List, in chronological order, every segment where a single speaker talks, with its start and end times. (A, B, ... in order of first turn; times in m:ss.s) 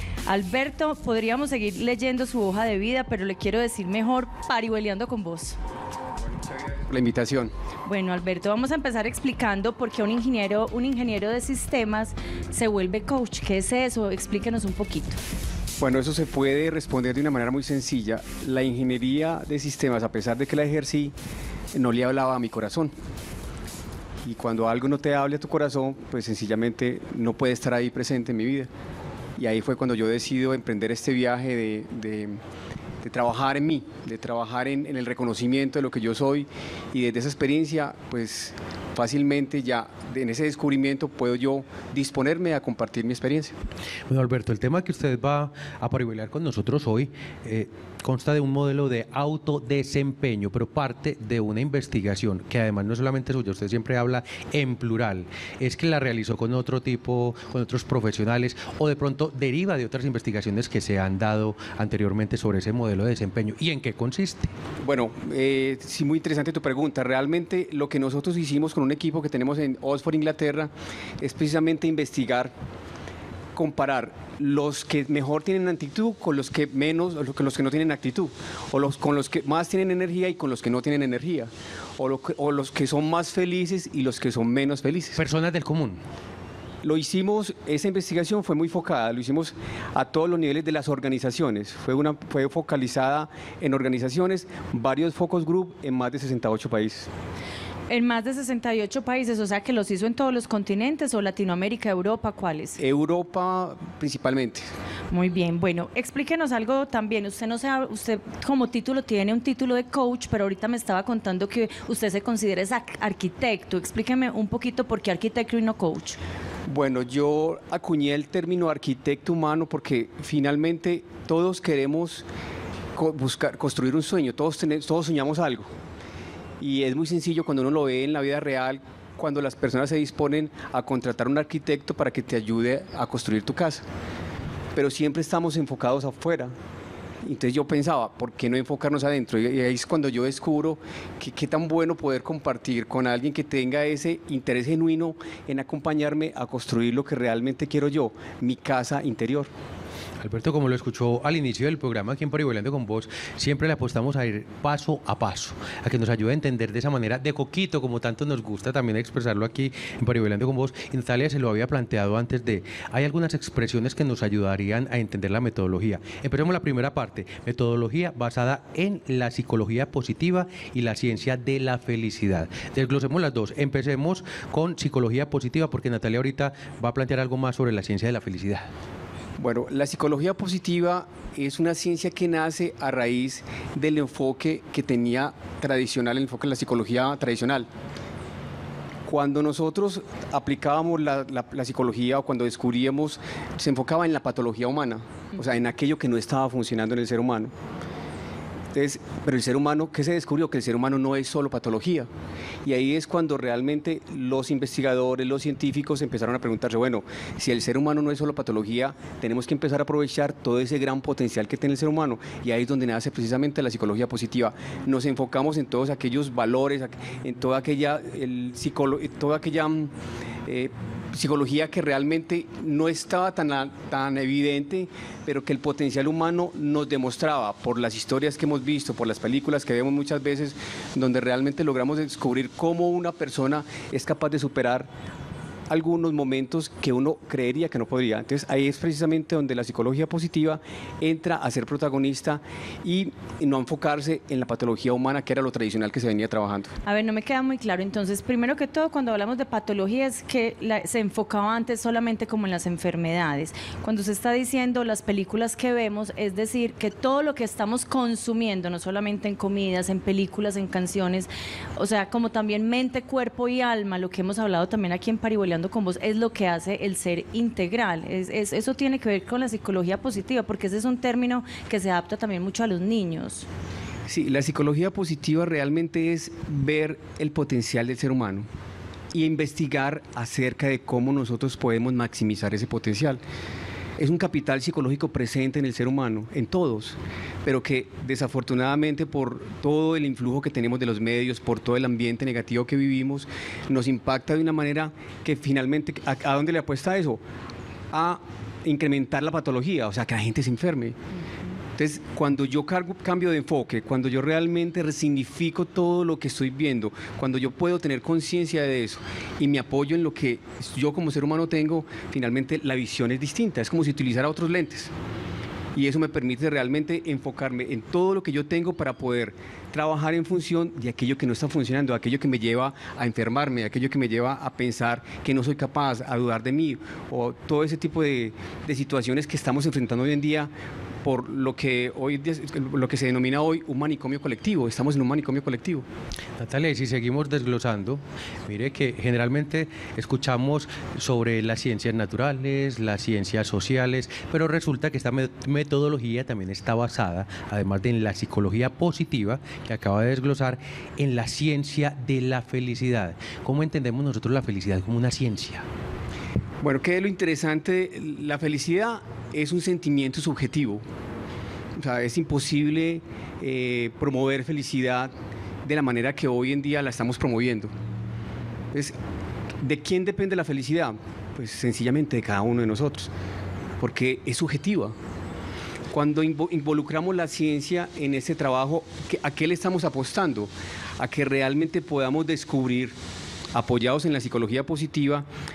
0:00.3-0:05.6 A
0:06.6-0:07.5 B
0:07.8-0:15.2 A
0:15.8-0:21.1 B
0:21.7-0:22.9 B
0:24.2-0:28.7 B
0:29.4-0:32.4 B
0:33.0-0:43.5 B
0:44.1-1:04.5 C
1:04.8-1:12.5 B
1:13.5-1:25.2 B
1:25.1-1:26.0 C
1:26.8-1:37.1 B
1:37.9-1:42.8 A
1:42.8-1:44.7 B
1:45.1-1:56.2 A
1:56.7-2:02.2 B
2:02.9-2:05.7 B
2:06.6-2:13.8 B
2:14.7-2:16.5 B
2:17.2-2:29.5 B
2:30.2-2:58.7 C
2:59.4-3:07.7 B
3:09.0-3:17.5 B
3:18.7-3:22.1 B
3:22.6-3:39.9 B
3:40.4-3:54.9 B
3:55.7-4:06.7 B
4:06.8-4:33.5 A
4:34.1-4:38.5 B
4:39.1-4:43.2 B
4:44.0-4:57.2 B
4:57.9-5:01.0 B
5:01.8-5:14.9 B
5:15.7-5:30.5 B
5:31.0-5:35.8 B
5:36.4-5:55.6 C
5:56.6-6:00.8 B
6:01.8-6:05.1 B
6:05.6-6:07.7 B
6:09.6-6:13.1 B
6:13.8-6:14.9 B
6:15.9-6:23.0 B
6:23.5-6:25.3 B